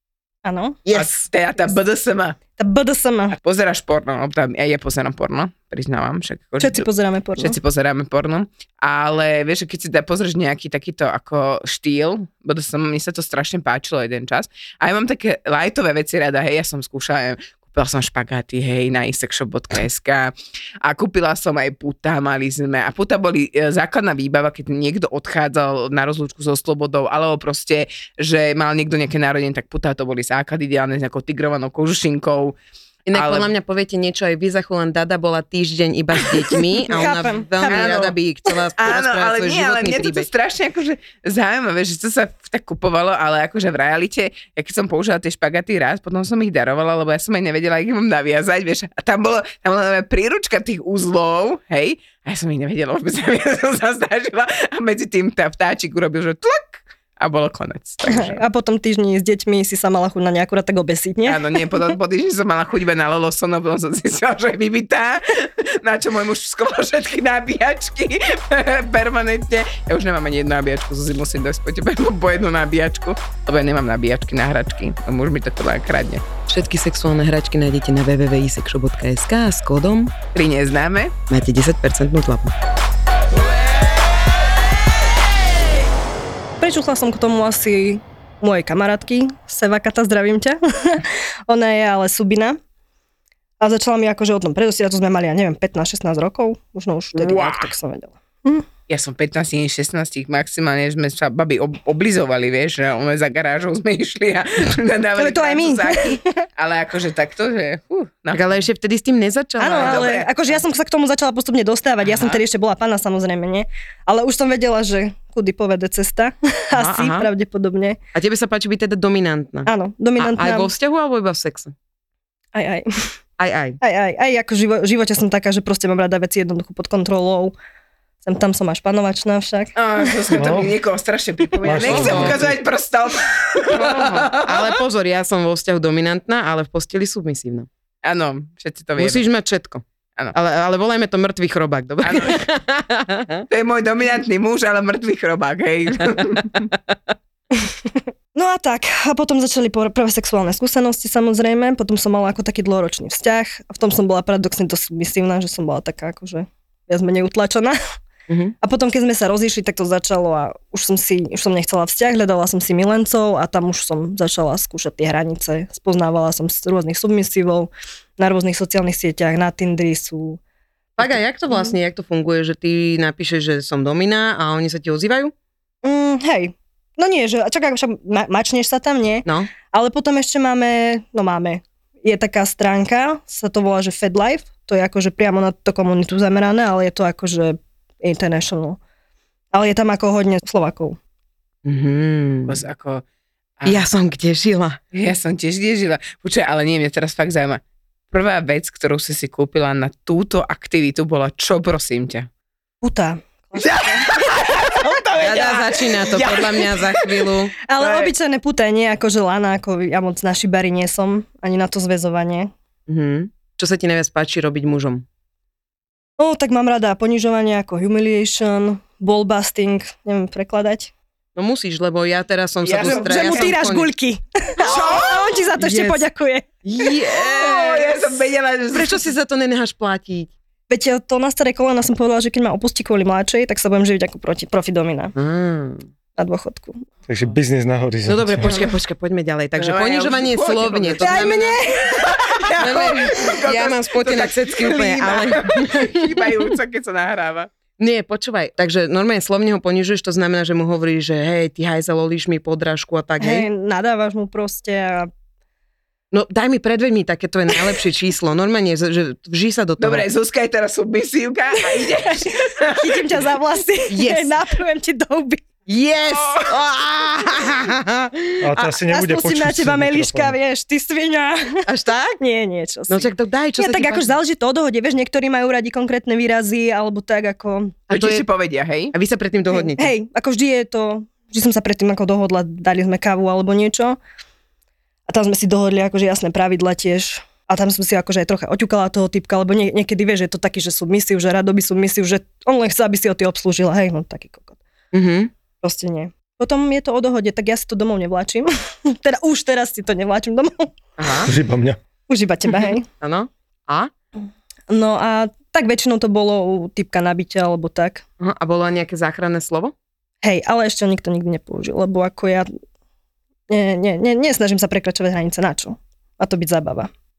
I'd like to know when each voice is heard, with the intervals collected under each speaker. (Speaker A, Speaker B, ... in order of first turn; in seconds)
Speaker A: 0.5-0.8, 2.6-3.4, 6.6-7.6, 36.8-37.9, 58.0-61.6, 86.6-92.6, 93.6-98.7, 105.2-106.4, 109.6-118.0, 119.7-120.7, 122.5-122.9, 123.8-127.5, 128.2-130.4, 148.3-157.8, 158.6-170.4, 175.8-188.8, 189.5-191.0, 202.8-204.2, 207.7-212.5, 216.2-220.9, 222.8-226.5, 230.7-235.1, 236.2-236.8, 241.0-242.2, 253.2-255.1, 261.7-265.4, 268.8-271.6, 272.2-277.8, 279.5-284.0, 285.1-294.6, 295.6-300.7, 302.1-302.9, 304.7-308.0, 310.2-312.5, 313.5-316.9
Speaker B: 0.9-1.2, 33.1-40.3, 76.5-80.1, 81.3-82.5, 108.3-110.2, 116.7-117.3, 118.1-121.7, 123.4-123.8, 131.7-132.4, 133.7-137.7, 139.0-143.5, 158.3-158.5, 171.0-175.3, 179.3-179.5, 191.7-192.6, 193.7-194.8, 205.2-207.5, 212.9-215.1, 221.4-223.9, 224.7-225.0, 225.6-226.1, 226.6-228.0, 228.7-230.3, 235.2-235.9, 238.1-241.6, 242.6-246.3, 247.8-253.5, 256.1-260.1, 263.9-264.3, 265.7-268.7, 271.7-272.2, 272.9-274.1, 277.9-278.2, 278.9-279.9, 294.9-295.3, 301.0-301.3, 303.0-303.9, 308.2-309.7
Speaker C: 0.9-2.4, 3.4-32.6, 33.1-33.5, 37.7-38.2, 38.8-58.4, 61.2-76.2, 80.3-81.2, 97.2-97.7, 98.9-108.5, 109.7-110.3, 112.0-112.4, 129.8-134.8, 138.0-139.3, 142.0-142.4, 143.5-146.7, 192.5-193.0, 193.6-193.9, 194.9-202.3, 203.6-208.1, 222.6-223.6, 224.6-225.4, 227.1-229.0, 239.6-247.5, 259.8-263.1, 266.1-266.5, 277.9-278.9
Speaker D: 130.3-130.7, 131.6-132.6, 237.1-238.6, 268.4-270.4, 301.2-301.8